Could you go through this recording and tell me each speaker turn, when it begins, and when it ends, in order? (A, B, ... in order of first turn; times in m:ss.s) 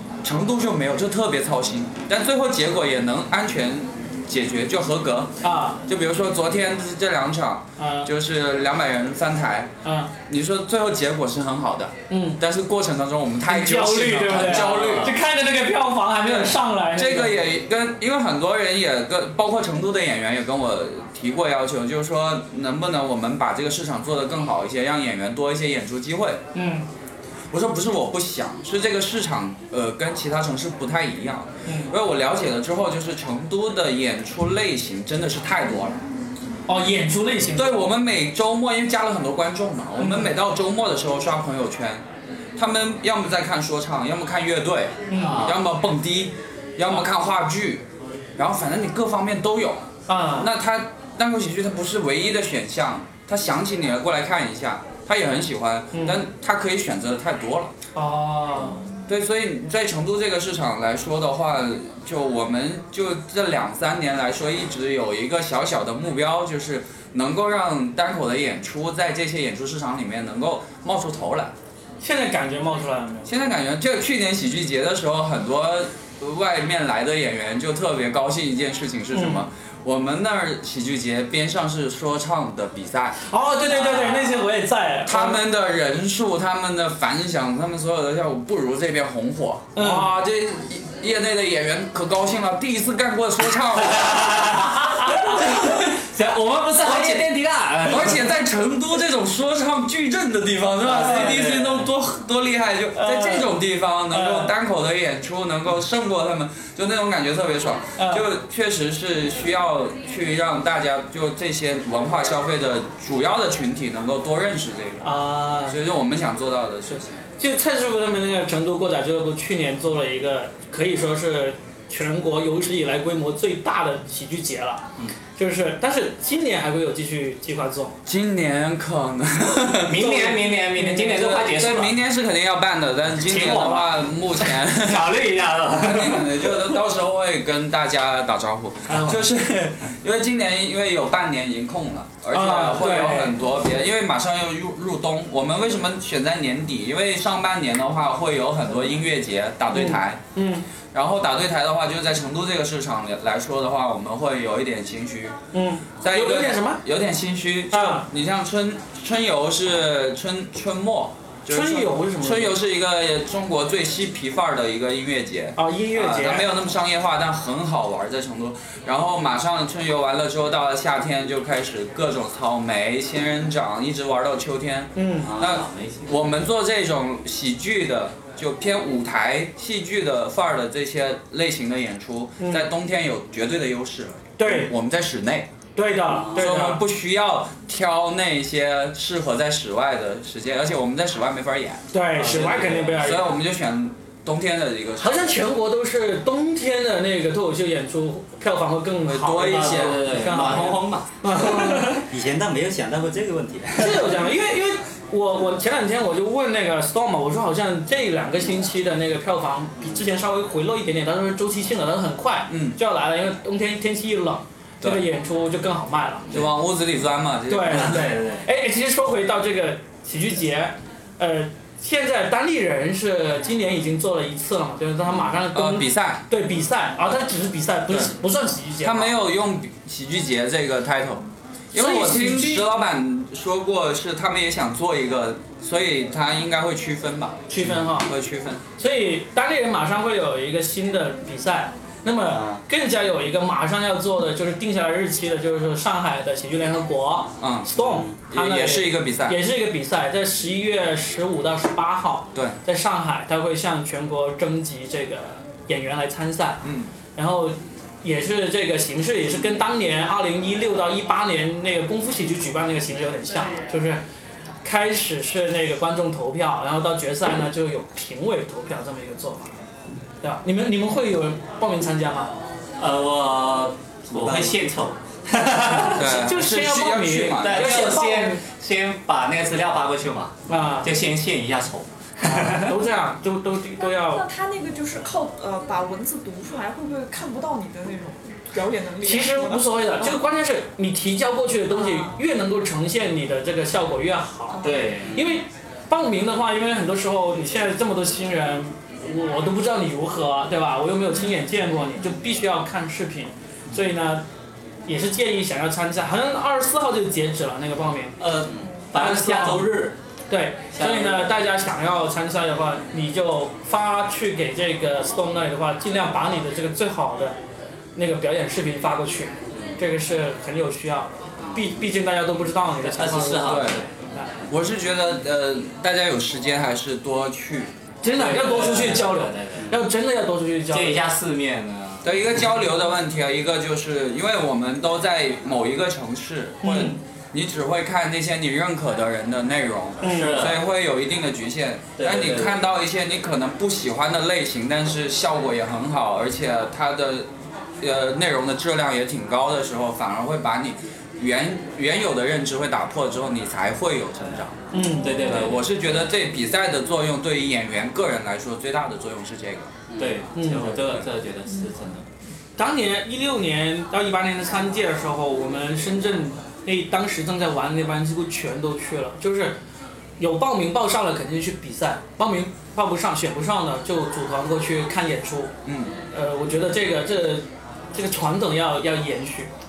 0:00.2-0:05.3 A
0:05.4-0:05.8 B
0:05.9-0:09.7 A
0:07.8-0:08.1 B
0:09.8-0:10.1 B
0:10.3-0:15.2 A
0:12.1-0:12.4 B
0:13.5-0:17.4 B
0:14.3-0:15.1 C
0:16.2-0:26.4 A
0:26.5-0:26.8 B
0:27.5-0:36.0 A
0:31.6-0:31.9 B
0:36.7-0:37.9 B
0:37.6-0:42.0 A
0:40.0-0:40.3 B
0:42.6-0:47.8 A
0:45.1-0:45.4 B
0:45.2-0:45.6 C
0:48.4-0:57.7 A
0:50.1-0:50.5 B
0:55.9-0:56.2 B
0:57.9-0:58.8 B
0:59.1-1:11.5 A
1:12.0-1:13.3 B
1:13.2-1:23.2 A
1:19.1-1:19.4 B
1:23.3-1:25.4 B
1:23.7-1:24.4 A
1:25.0-1:35.7 A
1:29.7-1:30.1 B
1:33.8-1:38.2 C
1:34.9-1:35.8 B
1:36.8-1:37.2 B
1:37.8-1:55.1 A
1:40.8-1:41.4 B
1:40.8-1:41.8 C
1:42.9-1:43.6 B
1:44.1-1:44.5 B
1:48.0-1:48.2 B
1:55.0-1:55.8 B
1:55.6-1:57.2 A
1:57.4-2:08.0 B
2:08.0-2:10.3 A
2:09.9-2:12.0 C
2:10.0-2:11.4 B
2:11.0-2:15.2 A
2:13.3-2:13.9 B
2:14.8-2:16.4 C
2:15.8-2:30.2 A
2:18.9-2:19.2 B
2:22.3-2:23.4 B
2:29.7-2:30.6 B
2:30.9-2:35.4 A
2:35.5-2:36.8 B
2:36.0-3:05.5 A
2:37.7-2:38.0 B
2:41.5-2:42.6 B
2:45.6-2:46.5 B
2:54.9-2:55.3 B
2:55.3-2:55.7 D
3:02.4-3:02.7 B
3:04.4-3:04.7 B
3:05.8-3:06.8 B
3:06.2-3:15.4 A
3:11.9-3:13.3 B
3:12.2-3:13.1 C
3:15.0-3:22.0 B
3:19.0-3:20.7 A
3:19.4-3:21.1 C
3:21.8-3:24.3 D
3:23.8-3:36.4 B
3:32.5-3:32.8 A
3:34.8-3:35.0 A
3:36.3-3:38.1 A
3:37.5-3:49.2 B
3:37.7-3:38.4 C
3:45.5-3:46.2 A
3:48.8-3:58.6 A
3:51.7-3:52.7 B
3:57.5-3:58.1 B
3:58.8-4:16.6 B
4:02.2-4:02.6 D
4:07.4-4:09.4 A
4:16.6-4:16.9 A
4:17.2-4:24.0 B
4:24.6-4:29.5 B
4:30.2-4:32.3 B
4:32.8-4:36.2 C
4:34.1-4:34.6 D
4:35.9-4:37.9 A
4:36.0-4:38.4 B
4:37.4-4:42.8 C
4:40.5-4:40.9 B
4:42.2-4:44.2 B
4:43.8-4:50.2 E
4:49.0-5:04.2 B
4:51.7-4:52.2 E
4:54.5-4:55.1 E
4:54.6-4:55.2 C
5:04.9-5:08.2 B
5:08.2-5:10.0 C
5:09.0-5:09.7 B
5:10.3-5:17.4 B
5:10.7-5:11.3 C
5:17.9-5:23.6 B
5:22.9-5:23.9 C
5:23.4-5:23.8 A
5:24.5-5:27.7 A
5:28.0-5:31.0 B
5:28.1-5:29.7 C
5:29.6-5:29.8 D
5:30.7-5:32.2 C
5:32.0-5:47.3 A
5:36.6-5:37.0 B
5:40.0-5:40.5 B
5:40.0-5:40.6 C
5:42.0-5:42.5 C
5:47.8-5:54.6 A
5:54.7-5:55.2 B
5:55.0-5:55.6 C
5:55.0-5:55.3 E
5:55.2-5:59.7 A
6:00.0-6:02.0 C
6:00.3-6:00.7 B
6:00.7-6:01.0 A
6:02.6-6:09.6 B
6:10.2-6:15.5 B
6:15.6-6:16.0 A
6:16.1-6:19.5 B